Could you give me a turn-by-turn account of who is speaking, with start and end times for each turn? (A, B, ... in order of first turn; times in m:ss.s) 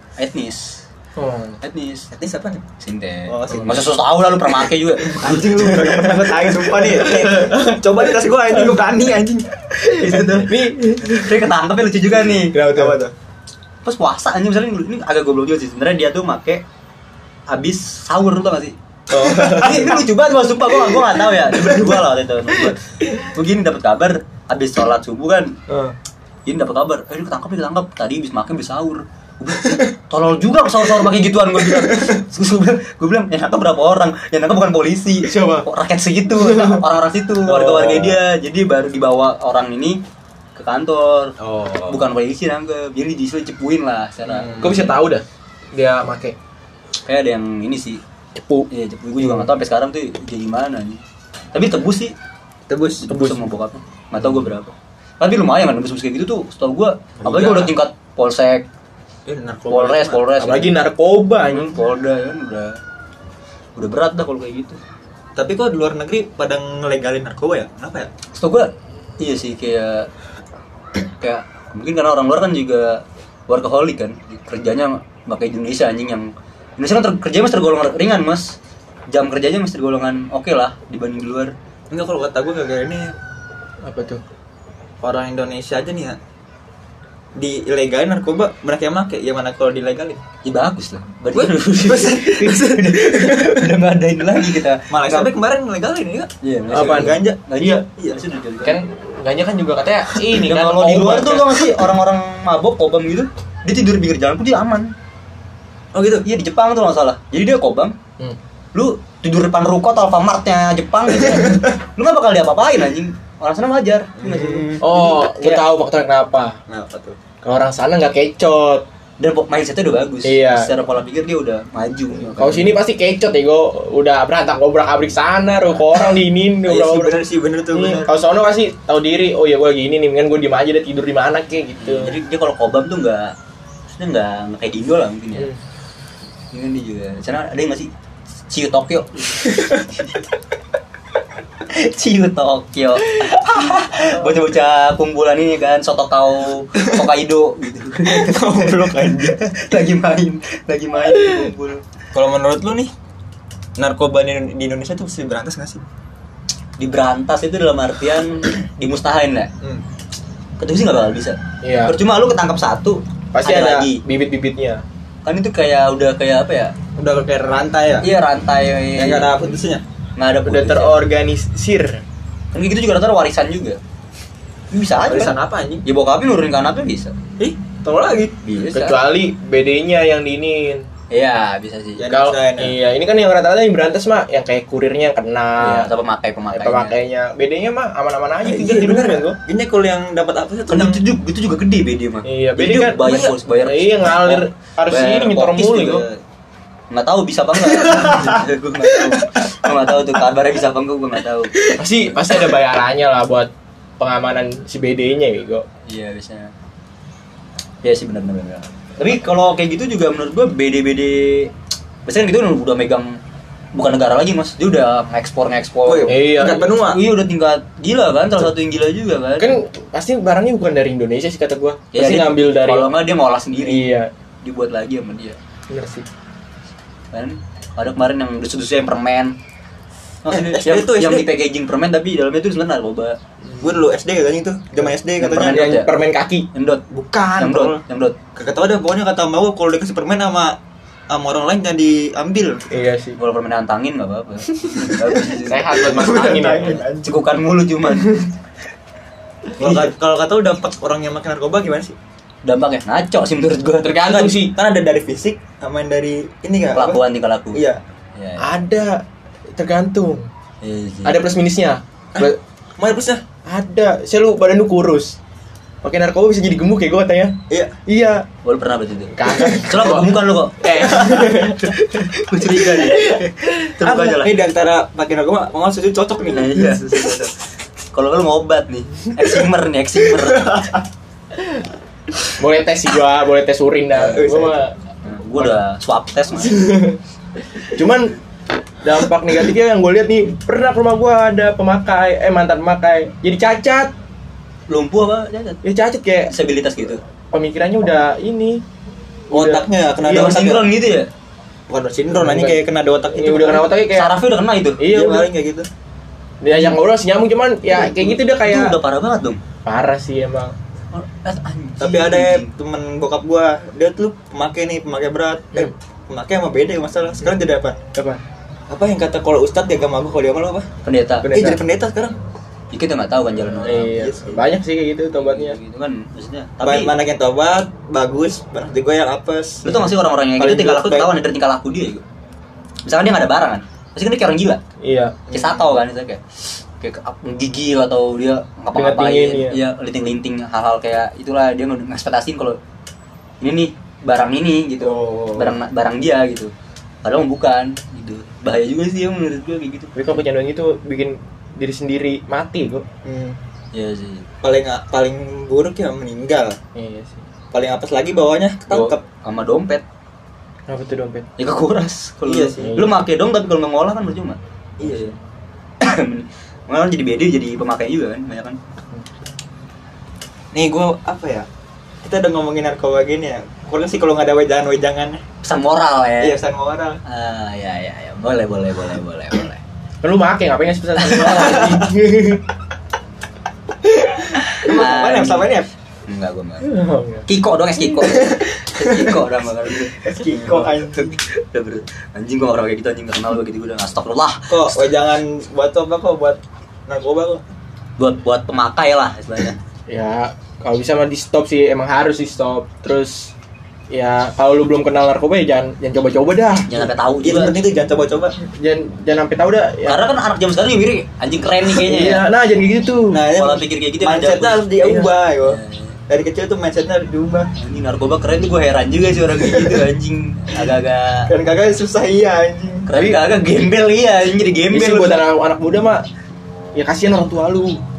0:00.2-0:00.8 A
0:01.2-0:01.6 B
0:01.6-0:02.1 A
0:02.1-0:02.6 C
0:02.8-0:05.7 A
0:03.3-0:03.9 C
0:05.0-0:09.5 C
0:06.8-0:07.6 B
0:09.8-0:12.6 A
0:09.9-0:11.4 B
0:12.5-0:13.0 B
0:12.5-0:13.1 C
0:13.8-0:16.6 A
0:17.5-0:18.8 A
0:19.1-0:20.0 B
0:19.2-0:19.9 C
0:19.3-0:25.6 A
0:25.7-0:26.0 B
0:26.4-0:40.0 A
0:35.2-0:35.7 B
0:36.3-0:36.8 B
0:37.4-0:38.2 B
0:40.6-0:41.3 A
0:41.4-0:42.0 B
0:41.9-0:44.9 A
0:44.3-0:44.9 C
0:44.6-0:46.4 B
0:47.0-0:48.0 A
0:48.3-0:49.5 B
0:48.7-0:51.0 A
0:51.5-0:52.1 A
0:52.7-0:53.1 C
0:53.0-0:58.6 A
0:53.1-0:53.5 B
0:57.2-0:57.7 C
0:59.2-1:00.2 C
0:59.7-1:00.8 A
1:00.4-1:01.7 B
1:01.4-1:02.8 A
1:03.8-1:04.8 A
1:05.4-1:08.1 C
1:08.3-1:10.1 A
1:11.2-1:18.6 A
1:19.1-1:21.5 A
1:21.9-1:23.1 C
1:23.8-1:24.2 B
1:25.0-1:26.2 C
1:27.4-1:30.2 C
1:30.4-1:35.3 A
1:31.3-1:33.4 C
1:34.9-1:38.2 C
1:36.4-1:38.8 A
1:36.7-1:37.8 B
1:38.6-1:41.9 B
1:40.4-1:44.9 A
1:45.9-1:46.2 C
1:46.2-1:48.0 A
1:48.7-1:55.6 A
1:51.3-1:51.6 C
1:54.2-1:55.1 C
1:54.8-1:56.6 B
1:56.7-1:57.2 C
1:57.4-1:58.8 B
1:59.2-2:02.8 A
2:00.2-2:00.7 B
2:02.3-2:12.2 B
2:06.6-2:08.1 C
2:11.8-2:13.3 A
2:13.9-2:15.5 A
2:16.5-2:17.9 A
2:18.5-2:20.2 A
2:21.7-2:31.8 A
2:28.0-2:29.4 C
2:32.1-2:32.9 C
2:33.8-2:35.8 C
2:36.8-2:39.5 A
2:40.6-2:44.0 A
2:41.6-2:42.0 B
2:43.3-2:44.8 B
2:45.2-2:46.7 A
2:47.0-2:48.1 C
2:48.0-2:49.3 A
2:49.0-2:49.8 C
2:50.2-2:51.0 A
2:50.4-2:52.0 B
2:52.5-2:53.8 A
2:54.7-2:57.1 A
2:55.0-2:55.8 C
2:57.4-2:58.4 C
2:58.4-2:59.0 A
2:58.7-3:00.9 B
3:01.1-3:02.0 A
3:02.0-3:02.8 C
3:02.1-3:05.9 B
3:05.6-3:06.9 A
3:06.5-3:09.4 B
3:08.4-3:11.0 C
3:10.7-3:16.2 A
3:12.2-3:16.0 B
3:16.9-3:21.6 A
3:17.8-3:18.3 C
3:21.7-3:25.6 B
3:25.9-3:26.5 A
3:27.8-3:31.5 A
3:32.0-3:33.2 A
3:33.7-3:39.6 A
3:35.8-3:37.0 C
3:36.1-3:36.7 B
3:39.4-3:42.9 B
3:41.9-3:43.9 A
3:43.6-3:44.1 B
3:44.4-3:45.4 A
3:45.7-3:46.0 B
3:47.1-3:49.4 A
3:50.2-3:53.2 A
3:50.3-3:51.4 C
3:53.6-3:55.7 C
3:54.8-3:56.5 B
3:55.2-3:55.9 A
3:56.5-3:58.2 A
3:56.9-3:57.8 C
3:58.4-4:00.6 C
4:01.1-4:02.6 C
4:02.7-4:03.2 B
4:03.2-4:06.0 A
4:05.4-4:06.8 B
4:05.7-4:07.2 C
4:07.0-4:08.3 A
4:09.6-4:11.9 C
4:09.6-4:09.9 A
4:12.4-4:14.4 A
4:13.8-4:14.6 B
4:14.2-4:17.0 C
4:16.7-4:17.6 A
4:17.5-4:17.8 C
4:18.2-4:18.5 A
4:18.4-4:19.0 B
4:19.6-4:20.3 B
4:20.6-4:21.2 A
4:21.0-4:22.4 B
4:22.1-4:23.2 C
4:23.4-4:25.2 B
4:25.8-4:28.3 B
4:27.5-4:27.8 C
4:28.4-4:34.5 A
4:29.1-4:31.7 B
4:30.8-4:31.6 C
4:32.3-4:33.5 B
4:33.8-4:37.1 C
4:36.3-4:37.3 A
4:37.9-4:40.7 A
4:40.1-4:40.8 C
4:42.4-4:44.7 B
4:43.9-4:44.6 C
4:45.0-4:46.9 A
4:46.5-4:47.0 B
4:47.7-4:48.2 B
4:48.8-4:53.9 B
4:54.7-4:55.6 A
4:55.6-4:56.3 B
4:56.3-4:57.0 A
4:57.3-4:58.6 B
4:59.3-4:59.6 B
4:59.3-5:00.7 C
5:00.0-5:01.1 A
5:01.7-5:03.7 C
5:02.1-5:04.1 B
5:03.9-5:04.8 A
5:04.8-5:05.3 B
5:04.9-5:05.7 C
5:06.4-5:08.8 B
5:07.7-5:09.4 A
5:09.6-5:10.5 B
5:10.9-5:12.5 A
5:11.8-5:17.8 C
5:17.9-5:18.2 B
5:18.7-5:20.7 C
5:20.8-5:21.3 A
5:21.2-5:21.6 B
5:21.2-5:22.2 C
5:22.7-5:24.0 A
5:23.5-5:25.6 B
5:23.9-5:24.4 C
5:25.2-5:26.9 A
5:26.6-5:29.9 C
5:29.6-5:32.0 A
5:30.4-5:31.1 C
5:32.8-5:34.6 A
5:34.8-5:35.2 B
5:35.3-5:35.8 C
5:35.3-5:36.2 A
5:36.8-5:42.6 A
5:38.7-5:39.6 B
5:43.4-5:46.5 A
5:44.8-5:45.6 B
5:47.0-5:49.9 A
5:49.9-5:52.9 B
5:53.0-5:53.4 C
5:53.7-5:54.3 A
5:54.4-5:56.6 C
5:56.7-5:57.2 B
5:57.5-5:59.0 C
5:58.7-5:59.8 A
6:00.7-6:01.3 B
6:01.4-6:05.1 A
6:02.2-6:02.7 C
6:02.6-6:02.9 B
6:04.8-6:05.1 C
6:04.8-6:05.1 B
6:05.8-6:08.6 A
6:10.5-6:11.5 C
6:12.0-6:15.2 C
6:15.4-6:16.4 A
6:16.2-6:17.0 C
6:17.0-6:19.6 A
6:20.0-6:22.4 B
6:21.0-6:21.6 A
6:21.2-6:21.9 C
6:24.1-6:25.7 C
6:24.4-6:25.5 A
6:26.1-6:26.7 A
6:26.6-6:27.3 B
6:27.3-6:34.9 A
6:30.0-6:31.2 C
6:34.5-6:37.4 C
6:38.0-6:39.6 A
6:39.9-6:43.3 B
6:43.9-6:46.9 B
6:46.7-6:47.6 A
6:47.2-6:48.3 C
6:48.5-6:50.0 B
6:49.8-6:52.2 A
6:51.7-6:53.2 B
6:53.1-6:57.5 C
6:53.3-6:56.0 A
6:57.6-7:01.3 A
7:01.3-7:02.9 C
7:02.9-7:05.2 A
7:02.9-7:03.2 B
7:04.7-7:06.1 B
7:06.7-7:07.8 B